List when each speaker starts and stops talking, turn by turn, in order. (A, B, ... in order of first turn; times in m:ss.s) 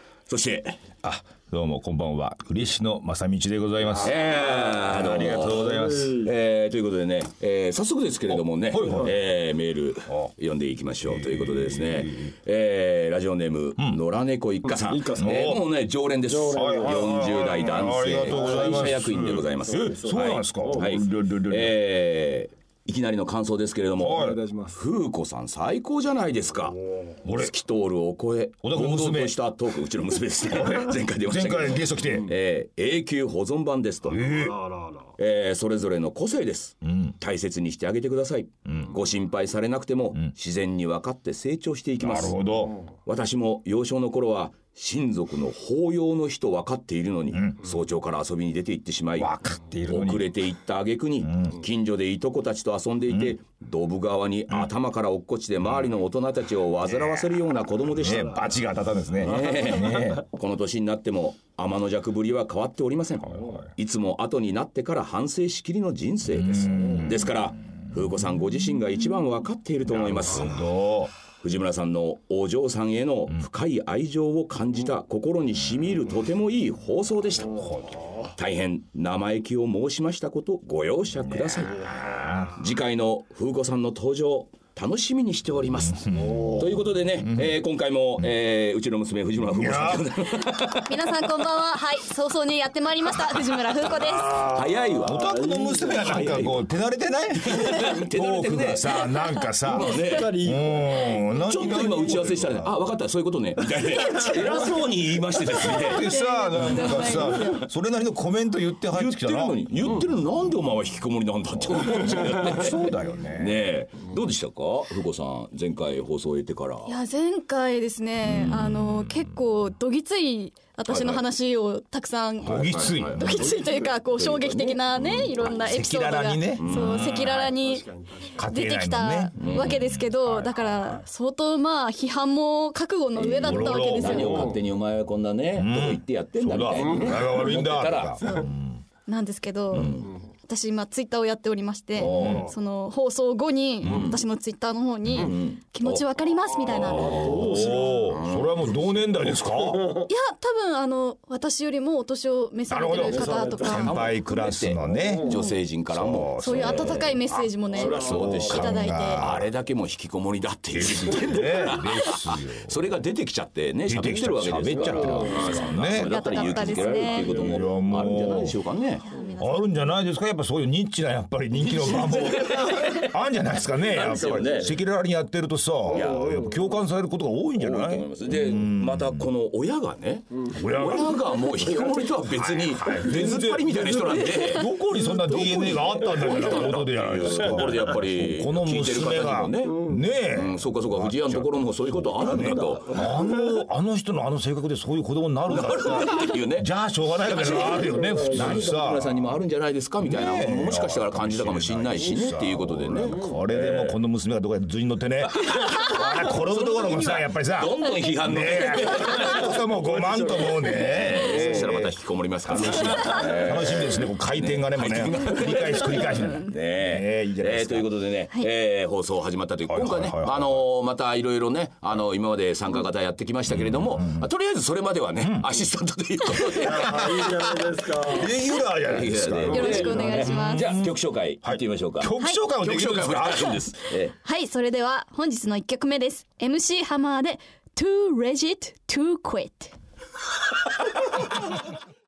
0:00.3-0:00.8 A
0:01.0-0:06.3 B
0:04.0-0:34.3 A
0:05.5-0:06.3 C
0:08.3-0:09.1 B
0:11.0-0:12.3 B
0:14.6-0:15.6 C
0:15.2-0:15.6 B
0:16.2-0:17.3 C
0:16.5-0:21.8 B
0:18.2-0:18.9 C
0:19.8-0:21.0 C
0:24.0-0:24.4 B
0:24.1-0:24.8 C
0:27.2-0:27.5 B
0:28.6-0:29.4 B
0:30.5-0:32.3 B
0:34.0-0:34.6 B
0:34.3-0:35.0 C
0:35.2-0:42.4 A
0:36.8-0:37.1 B
0:42.0-0:42.8 B
0:43.0-0:49.3 A
0:47.3-0:47.6 B
0:49.2-0:50.4 B
0:49.8-0:58.5 A
0:51.2-0:51.6 B
0:57.9-1:00.2 B
0:59.2-1:10.6 A
1:03.2-1:03.7 B
1:06.2-1:07.5 B
1:06.8-1:07.1 C
1:09.8-1:11.1 B
1:11.4-1:31.3 A
1:17.4-1:18.1 B
1:21.3-1:22.6 B
1:25.9-1:27.5 B
1:26.1-1:26.6 C
1:29.5-1:30.4 B
1:30.6-1:34.4 D
1:34.2-1:35.3 A
1:34.2-1:36.4 C
1:35.0-1:42.8 B
1:35.9-1:36.7 A
1:37.4-1:39.0 A
1:39.7-1:40.3 A
1:39.7-1:42.3 C
1:41.4-1:47.6 A
1:44.1-1:44.7 C
1:45.6-1:49.9 B
1:45.8-1:47.6 D
1:48.9-1:56.9 A
1:52.3-1:53.6 B
1:56.8-2:07.9 D
1:58.2-1:59.3 B
2:00.9-2:01.2 A
2:02.4-2:05.5 A
2:02.4-2:03.6 B
2:05.6-2:07.5 B
2:06.6-2:07.3 A
2:07.4-2:08.3 C
2:08.3-2:11.0 B
2:08.4-2:14.5 D
2:09.4-2:09.8 A
2:13.2-2:18.4 A
2:13.2-2:14.6 B
2:15.5-2:18.8 B
2:17.0-2:17.4 C
2:18.2-2:18.5 D
2:19.1-2:27.7 D
2:19.7-2:20.1 A
2:19.7-2:20.0 B
2:22.0-2:22.5 A
2:22.0-2:22.5 B
2:23.8-2:24.2 A
2:23.8-2:24.1 B
2:25.1-2:25.3 B
2:25.1-2:28.7 A
2:26.9-2:28.1 C
2:27.0-2:30.0 B
2:29.8-2:30.1 C
2:30.1-2:34.1 D
2:32.7-2:39.5 B
2:32.9-2:33.9 C
2:33.6-2:37.1 A
2:34.9-2:35.5 C
2:35.2-2:35.5 D
2:36.4-2:39.2 D
2:37.7-2:49.0 A
2:37.8-2:38.4 C
2:40.7-2:42.8 B
2:43.8-2:48.6 B
2:44.7-2:45.5 C
2:45.4-2:47.3 D
2:49.0-2:49.9 D
2:49.4-2:59.3 B
2:51.7-2:53.1 A
2:53.8-2:54.8 A
2:55.9-2:56.5 A
2:55.9-2:56.6 C
2:57.6-3:13.1 A
3:00.5-3:01.5 B
3:02.2-3:19.4 B
3:15.5-3:16.7 A
3:17.2-3:24.0 A
3:17.8-3:18.7 C
3:20.0-3:37.9 B
3:25.5-3:47.8 A
3:39.6-3:40.6 B
3:43.5-3:44.3 B
3:45.2-3:45.5 B
3:46.6-3:48.4 C
3:46.7-3:47.3 B
3:48.0-3:53.7 B
3:48.8-3:54.2 A
3:49.5-3:50.8 D
3:49.7-3:49.9 C
3:54.2-3:59.7 D